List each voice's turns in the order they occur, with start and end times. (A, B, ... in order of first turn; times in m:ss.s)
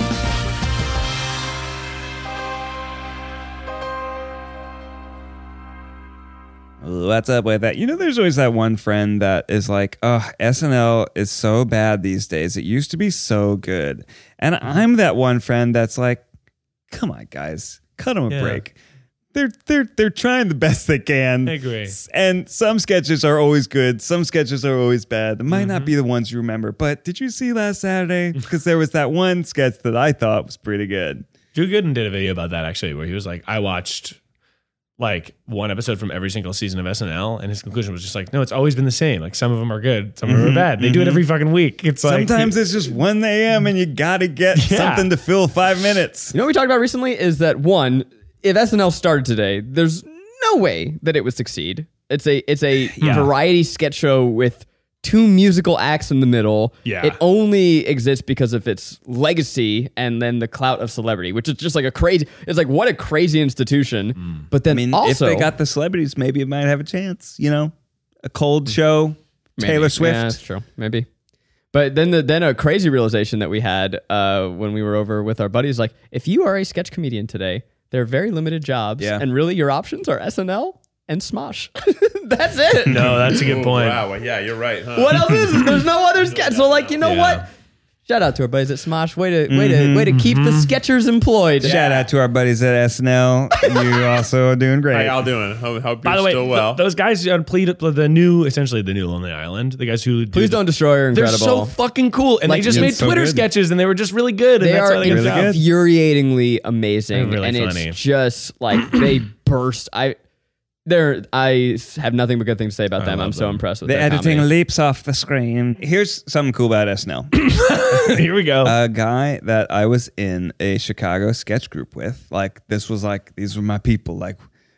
0:06.8-0:16.2 A
0:16.9-0:18.7 A
0:18.3-0:18.6 B
0:19.3-0:31.3 A
0:21.5-0:22.0 B
0:25.5-0:25.9 B
0:31.6-0:34.2 B
0:35.0-0:42.5 B
0:40.3-0:41.2 A
0:42.0-0:46.4 A
0:44.6-0:45.1 B
0:46.3-1:05.5 C
0:53.0-0:53.3 A
0:53.0-0:53.3 B
0:56.8-0:57.2 B
1:04.7-1:10.4 A
1:09.6-1:11.1 C
1:11.7-1:23.4 C
1:19.0-1:19.2 A
1:22.8-1:24.1 B
1:23.2-1:25.2 D
1:25.0-1:27.4 C
1:26.2-1:27.0 D
1:27.0-1:27.4 B
1:28.1-1:31.7 C
1:29.5-1:30.2 A
1:30.1-1:30.7 B
1:31.6-1:35.3 A
1:31.6-1:32.0 D
1:34.9-1:36.8 D
1:36.0-1:45.6 B
1:40.3-1:41.8 C
1:42.4-1:43.0 C
1:42.7-1:43.5 A
1:44.6-1:50.2 C
1:45.0-1:45.6 A
1:47.1-1:48.0 B
1:50.9-1:54.5 C
1:53.0-1:53.6 B
1:53.8-1:57.3 A
1:57.4-1:58.8 B
1:58.6-2:04.4 A